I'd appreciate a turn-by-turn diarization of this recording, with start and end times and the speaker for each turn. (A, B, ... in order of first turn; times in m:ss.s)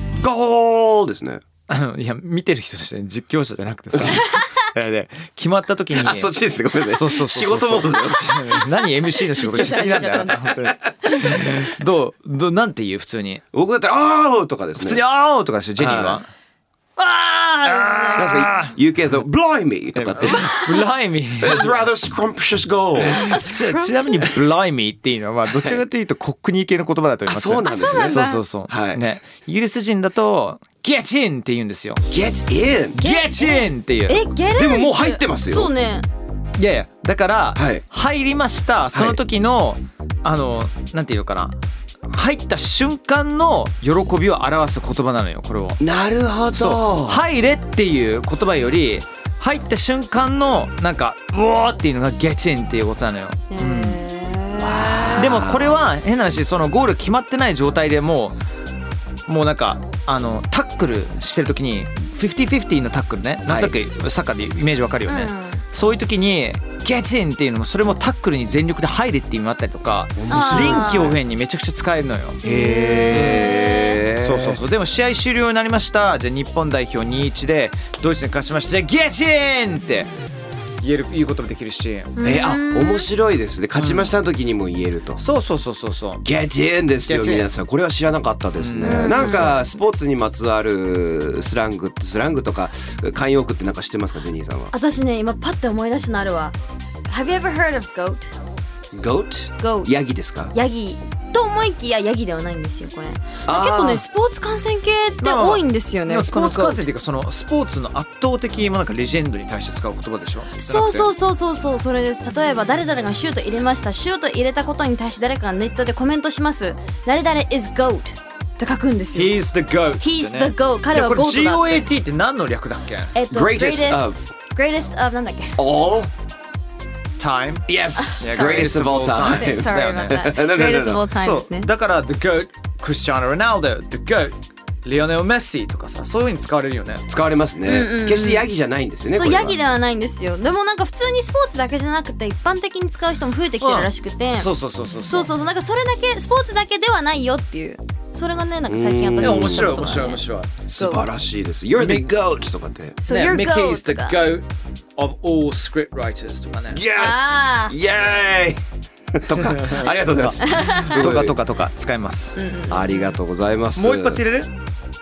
0:00.2-0:01.4 A
0:01.7-0:06.4 B
0:06.0-0:08.5 A
0:06.9-0:13.4 B
0:09.2-0:11.5 C
0:13.5-0:15.0 A
0:14.8-0:16.3 B
0:15.8-0:16.2 A
0:17.0-0:18.8 B
0:17.6-0:18.5 C
0:18.2-0:20.5 A
0:20.0-0:21.8 B
0:20.2-0:20.9 C
0:21.4-0:23.4 A
0:23.0-0:32.0 B
0:23.2-0:24.3 C
0:25.5-0:25.8 A
0:27.3-0:29.0 A
0:27.6-0:28.4 C
0:32.1-0:33.0 A
0:33.0-0:34.2 B
0:33.0-0:36.1 C
0:34.6-0:35.7 A
0:36.6-0:45.8 B
0:37.6-0:37.8 A
0:38.9-0:39.2 A
0:45.8-0:47.2 A
0:46.5-0:54.0 B
0:53.5-0:55.4 C
0:54.6-0:55.8 A
0:54.7-0:58.4 B
0:59.3-1:13.6 B
1:03.4-1:03.7 A
1:05.1-1:05.6 C
1:10.2-1:11.2 A
1:10.3-1:11.1 C
1:12.4-1:14.0 C
1:12.5-1:14.6 A
1:14.2-1:20.1 B
1:20.8-1:22.2 B
1:22.2-1:23.1 C
1:22.2-1:25.2 A
1:23.8-1:24.1 B
1:25.2-1:26.2 B
1:26.2-1:34.7 A
1:27.0-1:27.5 B
1:28.6-1:29.6 B
1:28.8-1:29.6 C
1:34.7-1:36.6 C
1:37.1-1:38.3 C
1:38.9-1:40.5 A
1:39.6-1:39.9 C
1:40.5-1:46.8 C
1:43.5-1:44.0 A
1:45.2-1:51.1 B
1:50.6-1:59.4 C
1:59.2-2:03.2 B
2:00.0-2:01.9 C
2:03.1-2:05.6 C
2:03.3-2:04.2 A
2:05.6-2:06.1 A
2:07.2-2:07.7 B
2:07.7-2:11.0 A
2:08.0-2:11.7 C
2:08.2-2:10.3 B
2:11.2-2:17.1 B
2:17.1-2:19.6 A
2:17.6-2:18.5 C
2:19.1-2:24.5 C
2:23.6-2:25.3 B
2:25.1-2:31.1 C
2:28.7-2:29.8 A
2:29.2-2:30.5 B
2:30.7-2:33.0 A
2:31.8-2:32.1 B
2:33.0-2:34.3 C
2:33.1-2:34.5 B
2:35.0-2:36.8 B
2:36.7-2:38.6 A
2:36.9-2:37.7 C
2:39.1-2:41.4 A
2:39.4-2:42.4 B
2:40.4-2:41.0 C
2:42.4-2:43.1 C
2:42.7-2:44.2 A
2:43.8-2:44.5 B